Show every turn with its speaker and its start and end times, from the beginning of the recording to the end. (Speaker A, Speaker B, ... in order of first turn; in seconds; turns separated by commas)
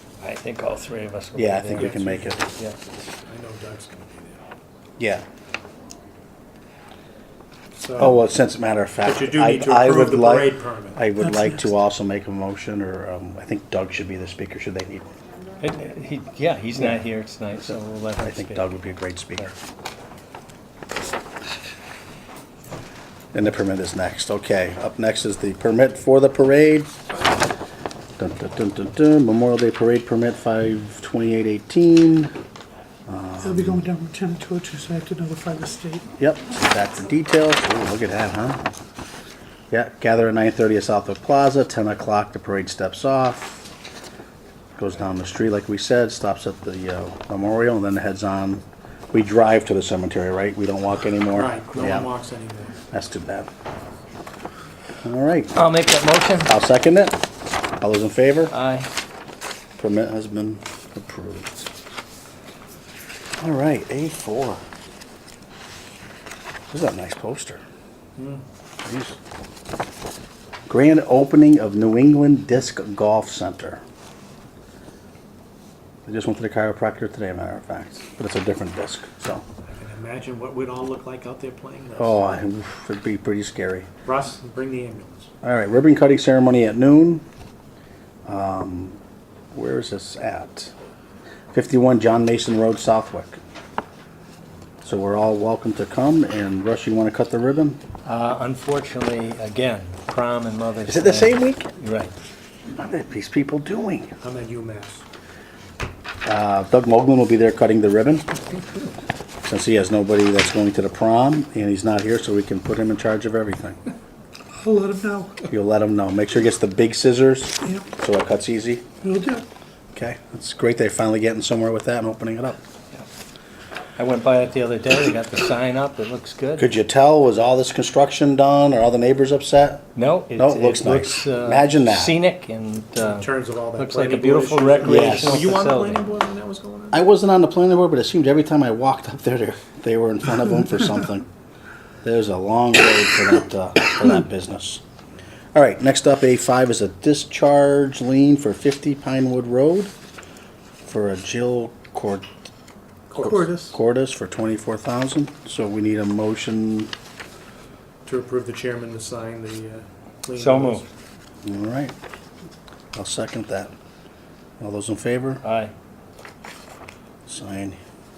Speaker A: 0.2-2.0, Speaker B: 1.4-2.4, Speaker C: 1.8-2.6, Speaker C: 3.3-4.4, Speaker B: 5.0-5.2, Speaker C: 7.8-8.2, Speaker B: 8.0-15.1, Speaker C: 9.0-11.1, Speaker A: 15.6-18.6, Speaker B: 18.2-19.5, Speaker B: 23.3-26.9, Speaker B: 28.2-32.3, Speaker B: 33.1-33.9, Speaker D: 33.4-36.1, Speaker B: 36.2-38.6, Speaker B: 39.7-43.7, Speaker B: 44.8-52.1, Speaker C: 51.3-52.8, Speaker B: 52.9-53.5, Speaker B: 55.0-55.5, Speaker A: 55.5-56.5, Speaker B: 56.5-57.2, Speaker B: 57.8-58.5, Speaker A: 58.5-58.9, Speaker B: 59.8-61.7, Speaker B: 63.4-64.6, Speaker B: 66.7-67.6, Speaker C: 68.2-68.4, Speaker B: 68.8-69.2, Speaker B: 70.7-73.8, Speaker B: 76.0-79.4, Speaker C: 79.7-82.4, Speaker B: 82.0-83.9, Speaker C: 84.0-85.3, Speaker B: 85.4-87.2, Speaker B: 88.3-89.0, Speaker B: 89.5-90.7, Speaker B: 91.5-93.4, Speaker B: 94.8-97.8, Speaker A: 98.0-102.1, Speaker B: 100.9-101.7, Speaker B: 102.7-104.1, Speaker C: 104.2-105.0, Speaker B: 106.2-108.3, Speaker B: 109.4-113.8, Speaker D: 114.6-115.5, Speaker B: 115.5-118.8, Speaker D: 119.0-119.5, Speaker B: 119.9-122.6, Speaker A: 124.0-126.7, Speaker B: 126.6-132.2, Speaker A: 130.0-136.0, Speaker C: 133.0-137.1, Speaker B: 134.8-135.4, Speaker B: 136.9-141.3, Speaker B: 142.0-144.8, Speaker B: 145.5-149.9, Speaker B: 150.9-152.3, Speaker C: 153.1-153.7, Speaker B: 153.2-156.9, Speaker C: 158.1-160.9, Speaker A: 160.4-160.8, Speaker B: 161.4-161.9, Speaker B: 162.9-163.7, Speaker B: 164.6-165.4, Speaker A: 165.4-165.7, Speaker B: 167.3-167.8